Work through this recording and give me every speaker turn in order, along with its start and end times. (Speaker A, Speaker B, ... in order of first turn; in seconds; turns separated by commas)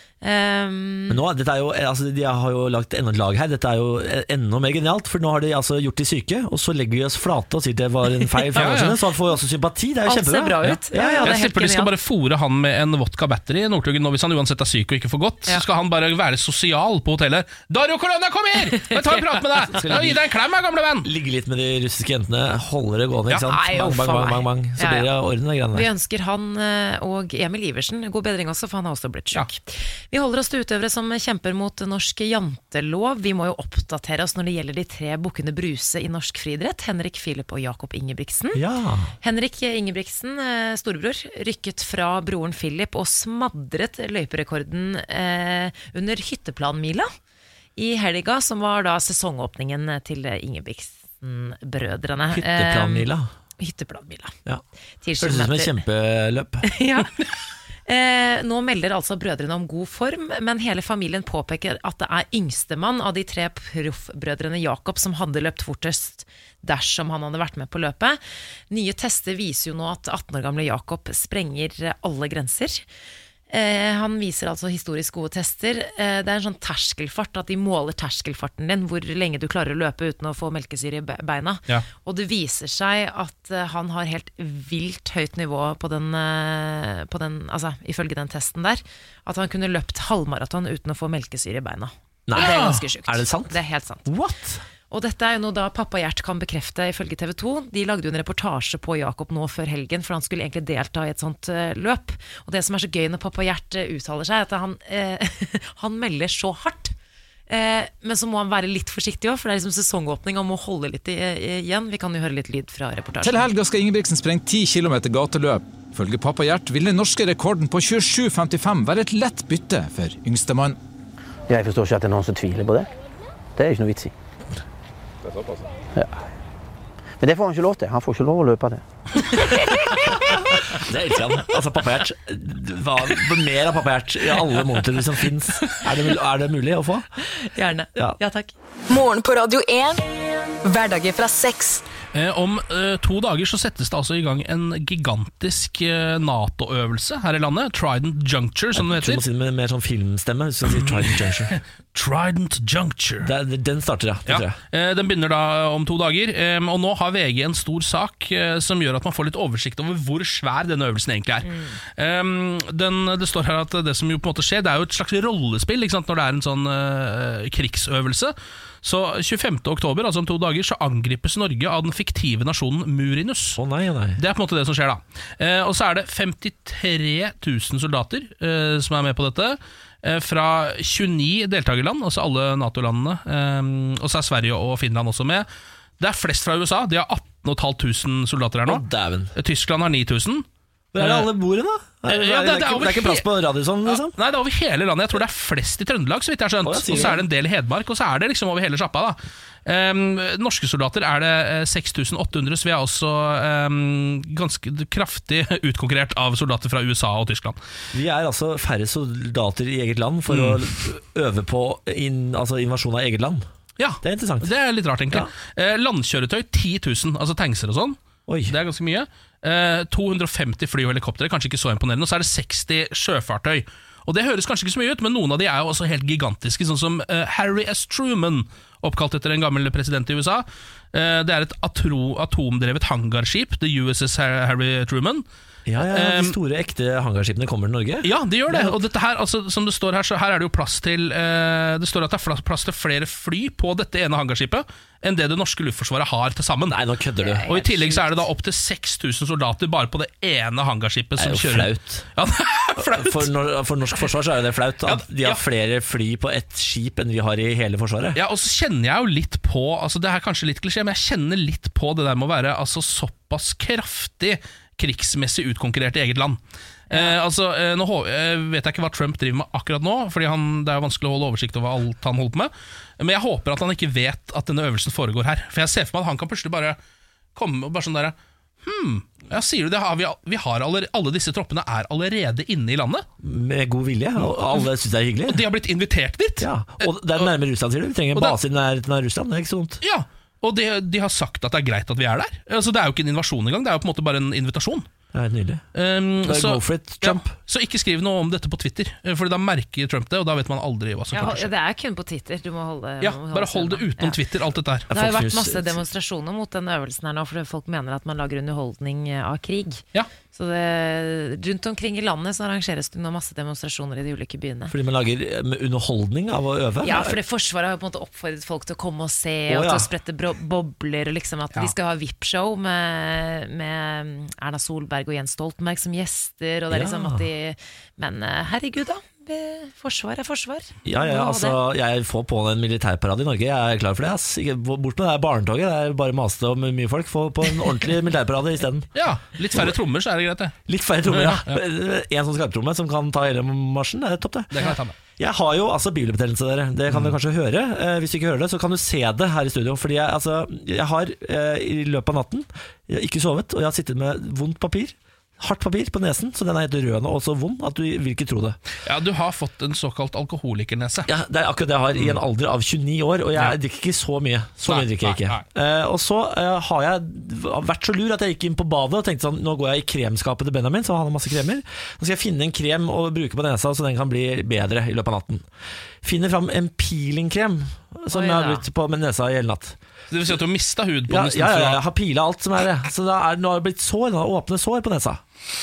Speaker A: 0.2-1.2, Speaker B: 1.1-11.3, Speaker C: 8.5-9.0, Speaker A: 10.1-11.9, Speaker C: 10.6-21.1, Speaker A: 18.7-19.4, Speaker B: 19.7-20.2, Speaker B: 21.0-25.9, Speaker A: 23.4-25.1, Speaker A: 25.7-38.6, Speaker B: 38.5-39.1, Speaker A: 39.2-47.1, Speaker A: 47.8-54.3, Speaker B: 52.3-53.3, Speaker A: 55.0-55.8, Speaker B: 55.2-56.6, Speaker A: 56.6-57.1, Speaker A: 57.9-68.2, Speaker A: 68.7-72.8, Speaker A: 73.5-94.0, Speaker B: 92.3-94.6, Speaker C: 92.4-92.8, Speaker A: 94.9-106.9, Speaker A: 107.5-113.5, Speaker D: 113.2-120.8, Speaker E: 121.5-122.9, Speaker E: 123.5-124.1, Speaker E: 127.2-128.8, Speaker A: 129.3-130.4, Speaker B: 130.7-137.1, Speaker A: 137.4-138.5, Speaker F: 138.9-140.0, Speaker F: 140.6-141.8, Speaker C: 142.1-149.2, Speaker B: 148.7-151.6, Speaker C: 150.6-153.3, Speaker B: 153.2-154.5, Speaker C: 154.3-173.6, Speaker A: 161.4-161.7, Speaker B: 173.6-174.2, Speaker C: 174.2-185.5, Speaker C: 186.0-188.8, Speaker B: 188.7-189.3, Speaker C: 189.3-190.4, Speaker B: 190.9-194.1, Speaker C: 191.0-191.3, Speaker C: 192.1-193.3, Speaker C: 193.8-207.6, Speaker B: 196.6-197.2, Speaker B: 207.9-213.4, Speaker C: 210.3-210.6, Speaker C: 213.8-218.0, Speaker B: 214.0-214.5, Speaker B: 218.3-218.5, Speaker C: 218.5-235.2, Speaker B: 235.7-238.8, Speaker C: 235.8-236.3, Speaker C: 238.0-246.8, Speaker B: 246.7-247.7, Speaker A: 247.2-248.0, Speaker C: 247.4-253.3, Speaker B: 251.2-252.1, Speaker B: 252.8-258.2, Speaker C: 254.8-255.4, Speaker C: 258.1-276.8, Speaker A: 266.9-267.1, Speaker C: 277.3-283.0, Speaker B: 283.2-285.4, Speaker C: 284.2-284.7, Speaker C: 285.3-287.3, Speaker B: 286.4-289.8, Speaker C: 289.8-294.9, Speaker B: 295.1-295.6, Speaker C: 295.7-301.5, Speaker B: 296.2-297.3, Speaker A: 301.1-304.2, Speaker C: 303.0-304.9, Speaker B: 304.9-305.8, Speaker A: 304.9-314.7, Speaker B: 314.7-317.2, Speaker A: 316.8-331.6, Speaker B: 319.5-319.9, Speaker B: 326.7-327.2, Speaker B: 330.8-338.9, Speaker C: 338.9-340.6, Speaker B: 340.7-358.6, Speaker C: 341.1-341.6, Speaker C: 344.5-344.9, Speaker C: 346.9-347.1, Speaker C: 358.8-361.1, Speaker B: 361.1-375.4, Speaker C: 364.6-365.4, Speaker B: 376.0-379.8, Speaker A: 378.1-378.6, Speaker C: 380.1-381.8, Speaker B: 381.1-385.2